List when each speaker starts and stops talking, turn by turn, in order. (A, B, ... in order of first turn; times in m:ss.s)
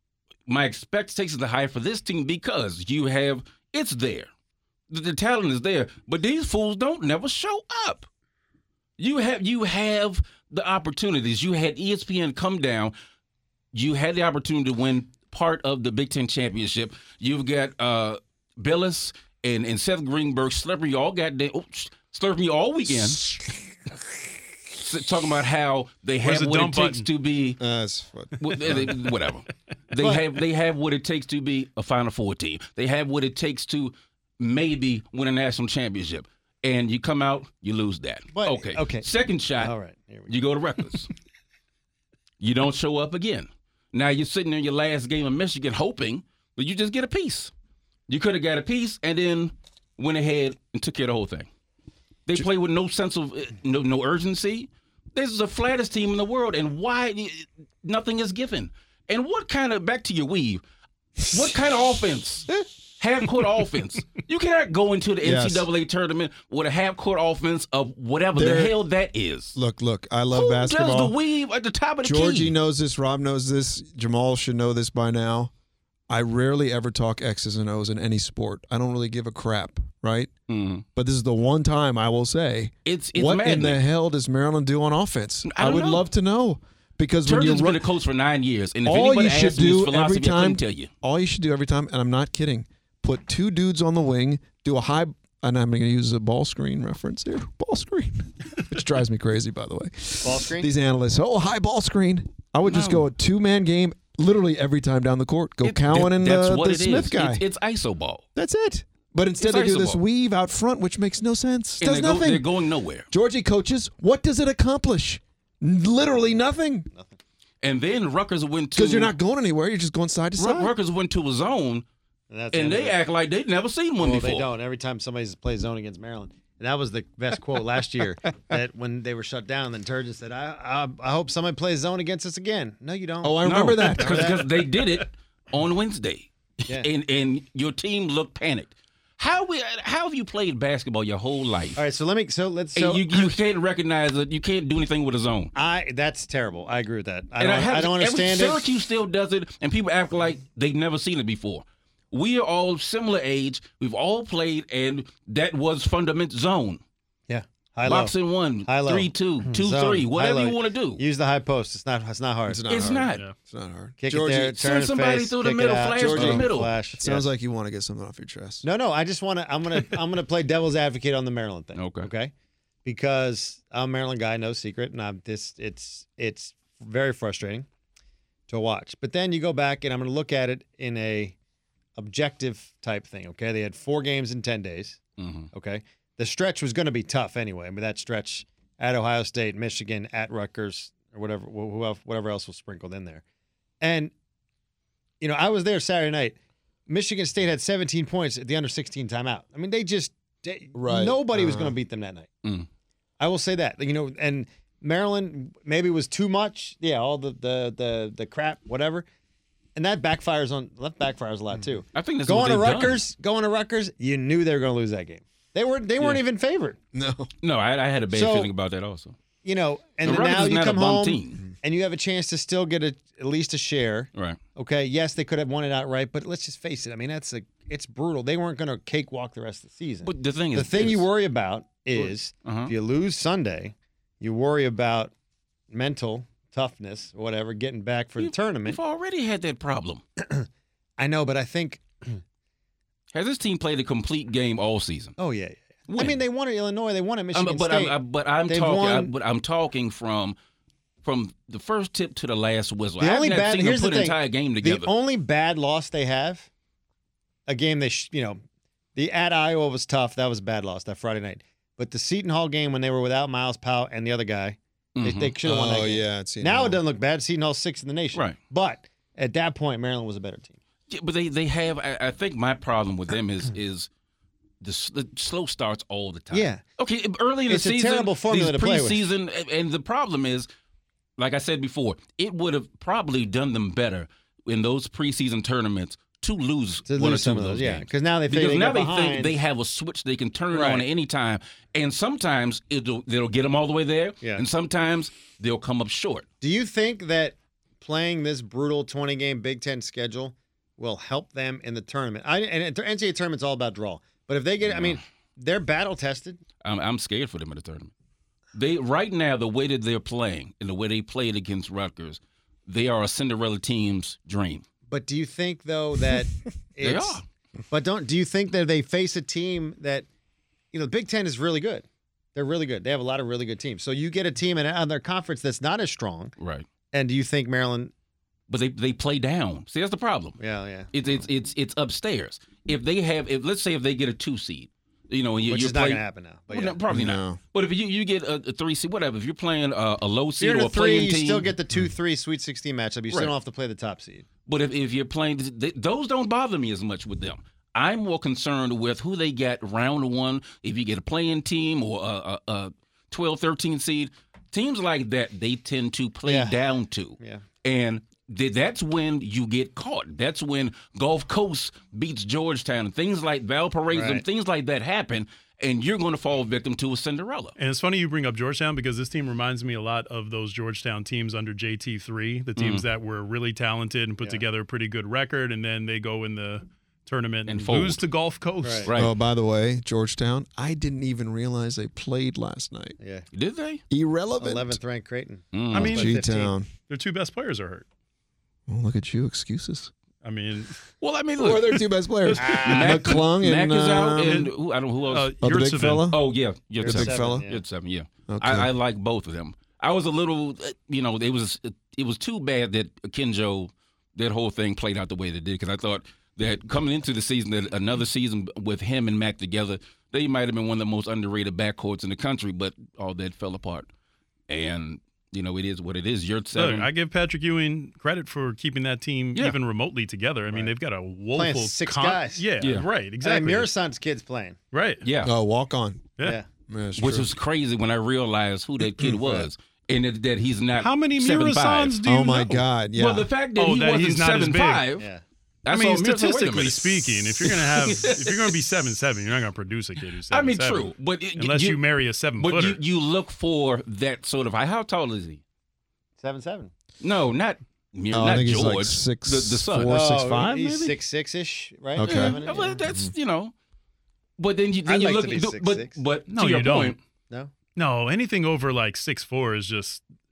0:00.5-0:04.3 A
0:04.9-0:08.1 A
0:09.0-0:12.9 A
0:13.7-0:23.2 A
0:24.8-0:27.6 A
0:26.2-0:27.1 B
0:27.6-0:29.0 C
0:28.4-0:39.7 A
0:30.0-0:30.2 D
0:38.3-0:39.1 D
0:39.6-0:40.4 D
0:40.3-0:41.1 A
0:42.4-0:47.5 A
0:48.1-0:51.5 A
0:52.3-1:00.6 A
1:01.3-1:09.6 A
1:05.2-1:05.7 C
1:08.4-1:08.8 C
1:09.6-1:11.2 C
1:10.3-1:12.5 A
1:12.0-1:15.5 C
1:16.1-1:20.3 C
1:20.5-1:20.8 A
1:21.0-1:27.8 C
1:22.9-1:23.8 A
1:25.5-1:26.0 A
1:27.3-1:30.9 A
1:28.8-1:47.4 C
1:40.2-1:40.7 D
1:42.6-1:43.1 A
1:45.6-1:48.2 A
1:48.4-1:52.4 C
1:49.4-1:50.0 A
1:51.8-1:53.1 A
1:53.1-1:56.9 C
1:57.6-1:59.1 A
1:58.8-2:00.7 C
2:00.4-2:01.8 A
2:02.3-2:03.0 D
2:02.5-2:04.5 A
2:04.0-2:14.5 D
2:13.2-2:14.3 C
2:13.4-2:21.8 A
2:21.8-2:23.4 D
2:22.8-2:25.5 A
2:25.6-2:28.6 D
2:27.4-2:36.8 A
2:37.3-2:42.7 D
2:37.9-2:41.0 A
2:42.5-2:44.6 C
2:42.7-2:43.2 A
2:44.0-2:47.2 D
2:44.4-2:46.7 A
2:46.0-2:48.6 C
2:48.6-2:52.3 D
2:51.8-2:52.1 A
2:52.8-2:57.7 D
2:58.5-3:01.4 D
3:02.0-3:05.0 D
3:05.2-3:05.5 A
3:05.5-3:13.2 D
3:13.8-3:14.1 D
3:15.2-3:22.3 D
3:20.8-3:21.8 C
3:23.2-3:29.1 D
3:29.8-3:36.8 D
3:31.9-3:33.0 A
3:36.9-3:37.3 C
3:37.4-3:39.2 A
3:38.1-3:38.5 D
3:39.4-3:55.1 D
3:40.0-3:41.4 A
3:50.0-3:51.1 A
3:52.0-3:52.7 A
3:55.7-3:58.8 D
3:58.2-4:00.0 A
4:00.2-4:02.2 D
4:03.1-4:05.2 A
4:05.2-4:09.1 D
4:05.9-4:06.2 A
4:07.3-4:10.4 A
4:11.0-4:14.9 A
4:13.0-4:16.5 D
4:17.5-4:18.4 D
4:19.0-4:30.6 D
4:25.0-4:25.4 A
4:25.4-4:26.8 C
4:30.9-4:33.9 A
4:34.6-4:40.5 A
4:36.3-4:36.6 D
4:37.5-4:39.0 D
4:41.2-4:56.2 A
4:46.9-4:49.4 D
4:50.5-4:50.9 D
4:56.4-5:06.4 D
5:04.7-5:05.0 A
5:06.6-5:07.9 A
5:08.5-5:14.6 A
5:14.9-5:20.1 D
5:16.8-5:17.2 A
5:20.7-5:26.3 D
5:26.4-5:26.7 A
5:26.9-5:27.9 D
5:28.5-5:30.4 A
5:30.4-5:30.9 D
5:30.9-5:41.5 A
5:35.5-5:36.8 D
5:36.9-5:37.4 C
5:40.4-5:44.2 D
5:44.5-6:07.6 A
5:56.2-5:56.6 D
6:03.9-6:04.2 D
6:07.6-6:18.9 B
6:12.6-6:12.9 A
6:17.5-6:18.0 A
6:18.6-6:18.9 D
6:18.9-6:19.1 A
6:19.0-6:23.0 C
6:23.0-6:23.2 D
6:23.3-6:23.8 A
6:23.9-6:24.8 C
6:24.4-6:26.5 D
6:25.5-6:26.0 A
6:25.7-6:26.2 B
6:25.8-6:26.7 C
6:26.9-6:27.8 B
6:28.7-6:29.9 C
6:30.2-6:30.7 B
6:31.0-6:31.8 A
6:31.4-6:34.5 C
6:32.2-6:33.2 B
6:32.4-6:33.0 D
6:32.6-6:35.3 A
6:34.3-6:34.5 B
6:35.0-6:36.1 B
6:35.4-6:36.2 C
6:36.1-6:53.9 A
6:36.8-6:37.4 C
6:36.8-6:37.6 D
6:38.3-6:38.7 C
6:54.5-6:56.9 A
6:56.5-7:03.7 B
7:01.3-7:02.4 D
7:02.6-7:02.9 A
7:03.2-7:04.6 D
7:04.7-7:05.0 B
7:05.0-7:05.3 A
7:05.2-7:06.2 C
7:06.2-7:06.5 D
7:06.7-7:07.3 C
7:07.0-7:12.0 A
7:10.8-7:12.6 B
7:12.0-7:13.3 C
7:13.0-7:15.1 A
7:13.6-7:14.8 B
7:15.6-7:18.6 A
7:15.7-7:22.8 B
7:20.3-7:21.8 A
7:22.4-7:25.4 A
7:26.2-7:26.7 D
7:27.0-7:30.1 A
7:28.1-7:30.9 C
7:29.9-7:32.8 D
7:32.0-7:33.1 C
7:32.0-7:33.5 A
7:34.4-7:37.0 A
7:34.9-7:36.0 D
7:36.3-7:37.0 B
7:37.8-7:40.0 B